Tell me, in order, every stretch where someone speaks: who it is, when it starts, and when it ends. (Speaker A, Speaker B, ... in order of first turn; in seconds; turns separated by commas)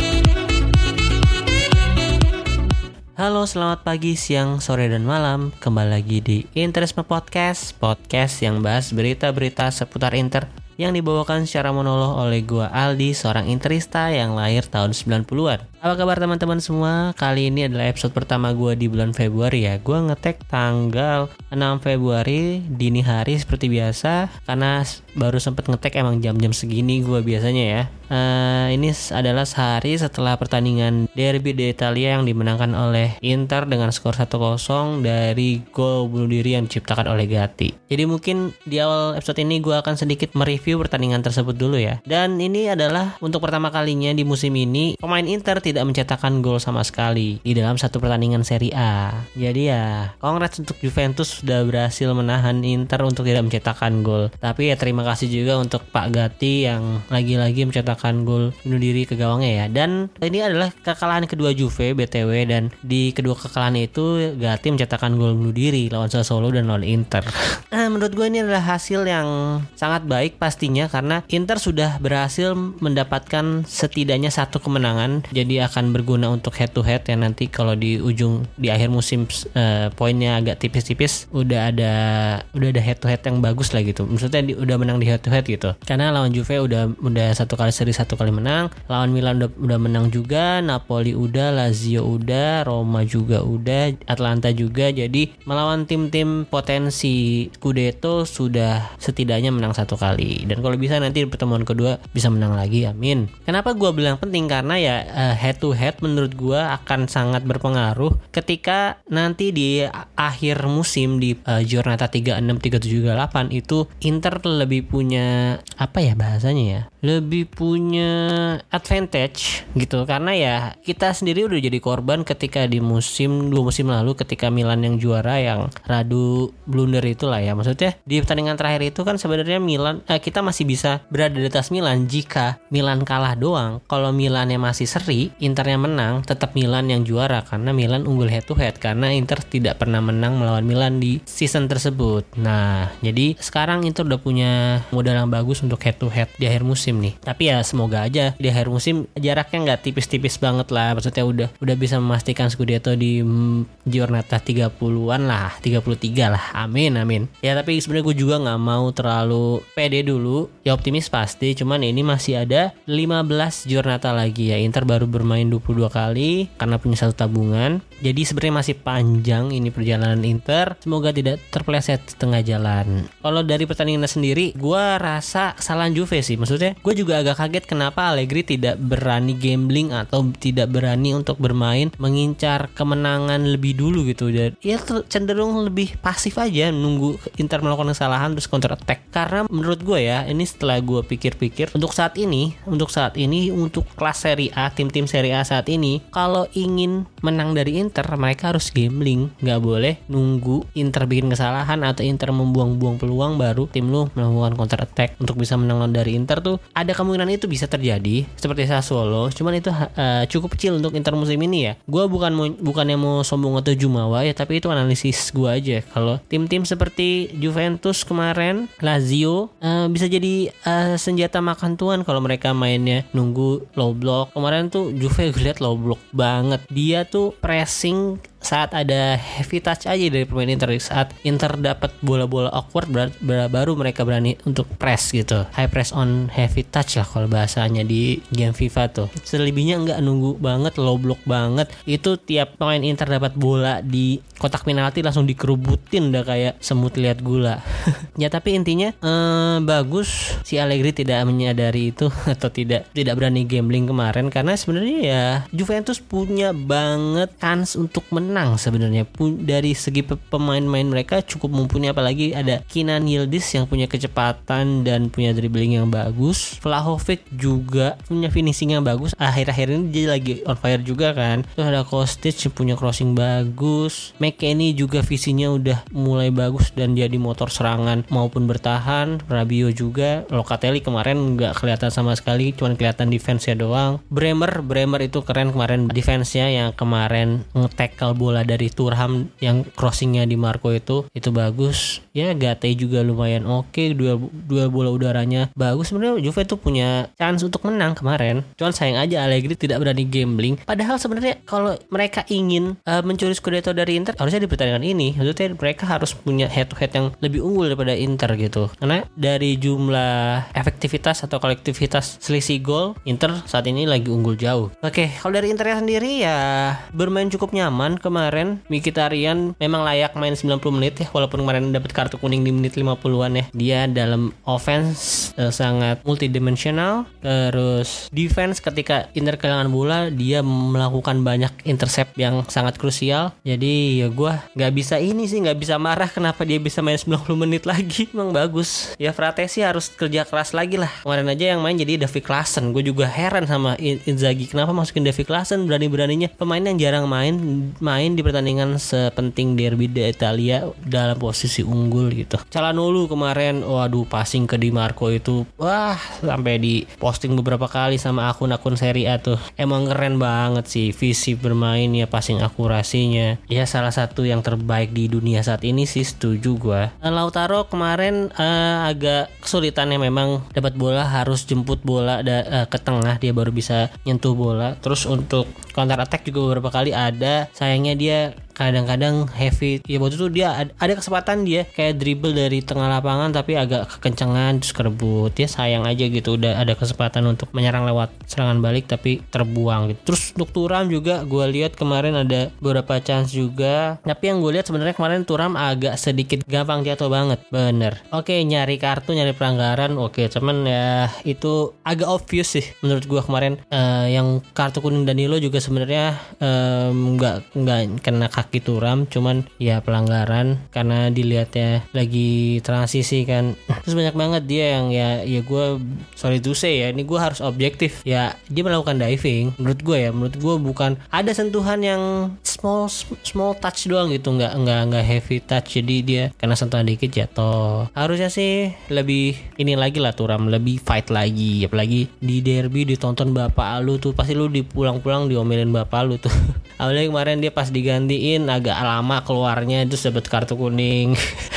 Speaker A: 3.2-441.2